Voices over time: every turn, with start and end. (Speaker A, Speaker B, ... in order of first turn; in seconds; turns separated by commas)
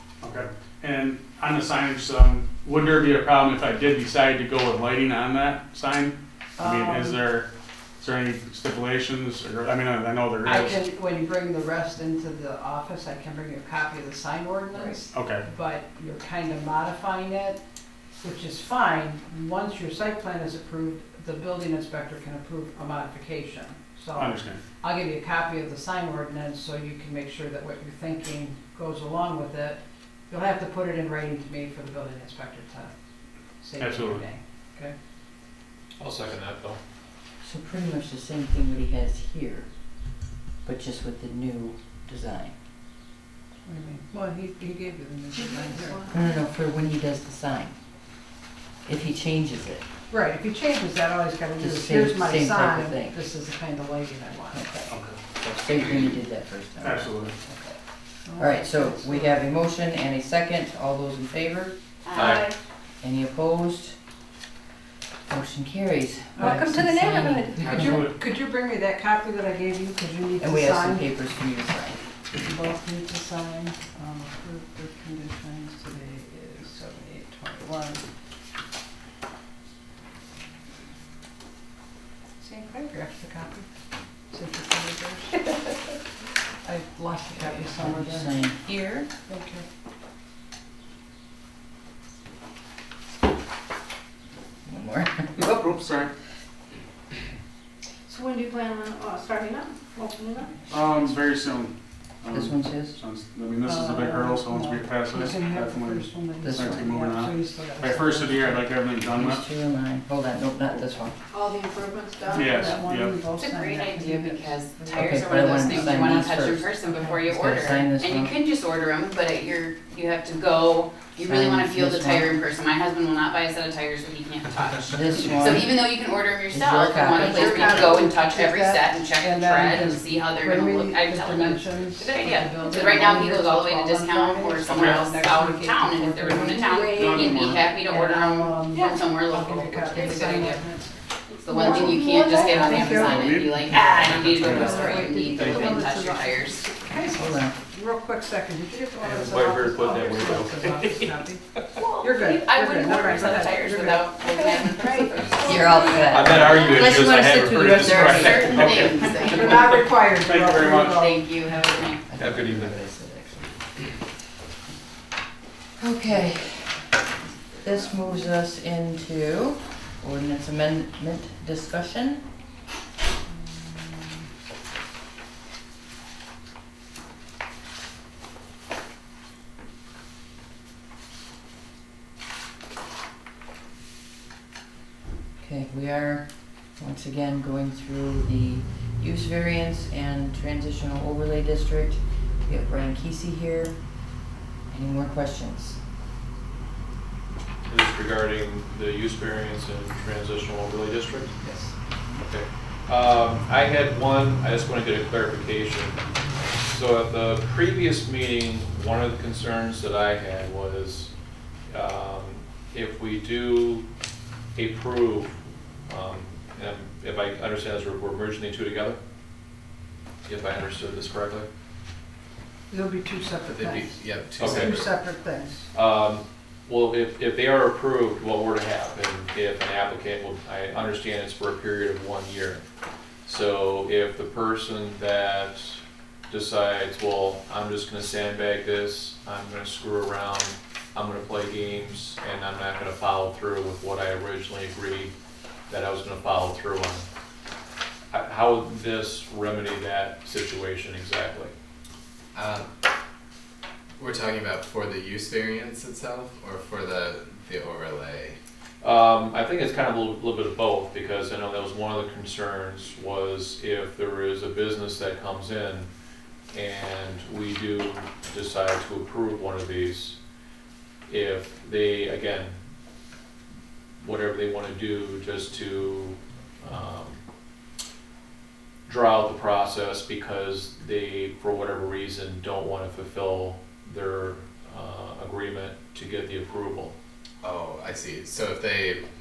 Speaker A: 0.2-10.9, Speaker B: 6.6-7.2, Speaker B: 10.4-17.6, Speaker A: 15.1-15.5, Speaker B: 18.2-32.9, Speaker A: 24.2-24.6, Speaker B: 33.6-34.9, Speaker A: 33.8-34.2, Speaker C: 36.0-36.8, Speaker D: 37.4-39.7, Speaker D: 40.6-42.5, Speaker B: 43.6-46.1, Speaker E: 45.3-46.4, Speaker D: 46.1-47.7, Speaker D: 48.9-49.9, Speaker B: 50.1-54.6, Speaker D: 51.6-53.2, Speaker D: 54.5-57.8, Speaker A: 54.9-56.1, Speaker A: 56.8-57.3, Speaker B: 58.2-59.4, Speaker D: 58.4-61.7, Speaker E: 62.1-62.6, Speaker C: 62.1-62.5, Speaker D: 63.0-64.0, Speaker D: 65.3-68.0, Speaker B: 66.4-66.7, Speaker E: 66.4-67.9, Speaker B: 67.7-71.1, Speaker A: 67.8-68.1, Speaker D: 70.4-72.0, Speaker B: 72.3-78.0, Speaker B: 82.4-83.7, Speaker B: 84.3-85.5, Speaker B: 86.6-88.4, Speaker D: 87.4-89.1, Speaker B: 89.3-89.6, Speaker D: 94.7-95.3, Speaker A: 95.4-96.1, Speaker E: 98.1-100.7, Speaker A: 100.7-109.4, Speaker D: 102.3-103.0, Speaker B: 103.7-108.6, Speaker D: 106.4-106.9, Speaker D: 109.2-111.2, Speaker E: 111.3-112.8, Speaker B: 112.3-116.1, Speaker A: 112.3-113.2, Speaker F: 113.3-140.6, Speaker D: 114.9-116.7, Speaker D: 117.3-118.3, Speaker D: 121.2-122.3, Speaker D: 124.9-125.9, Speaker D: 126.5-127.9, Speaker B: 127.1-140.9, Speaker A: 137.0-137.6, Speaker F: 141.4-146.7, Speaker E: 141.5-142.8, Speaker B: 141.5-143.3, Speaker A: 142.8-145.5, Speaker B: 144.2-151.4, Speaker C: 144.8-145.8, Speaker D: 147.1-147.6, Speaker C: 149.0-151.1, Speaker F: 151.8-160.0, Speaker B: 152.0-155.5, Speaker D: 155.4-158.7, Speaker C: 156.1-158.5, Speaker A: 158.5-159.0, Speaker B: 159.2-161.4, Speaker A: 160.2-161.0, Speaker F: 160.6-162.1, Speaker D: 162.1-163.5, Speaker C: 162.2-162.8, Speaker D: 165.8-166.9, Speaker D: 167.6-172.2, Speaker D: 185.4-193.8, Speaker D: 194.7-195.8, Speaker C: 197.7-201.4, Speaker C: 202.2-206.0, Speaker C: 206.7-211.1, Speaker C: 211.7-213.8, Speaker C: 214.6-219.0, Speaker C: 220.3-221.5, Speaker B: 222.7-225.7, Speaker G: 223.5-224.9, Speaker C: 224.4-224.9, Speaker C: 225.7-232.6, Speaker C: 233.2-245.1, Speaker C: 245.7-247.1, Speaker C: 248.1-251.5, Speaker G: 252.3-252.7, Speaker G: 254.0-258.4, Speaker C: 258.8-265.9, Speaker C: 266.5-270.2, Speaker C: 271.1-272.6, Speaker C: 274.0-277.2, Speaker C: 278.9-286.9, Speaker G: 287.4-289.0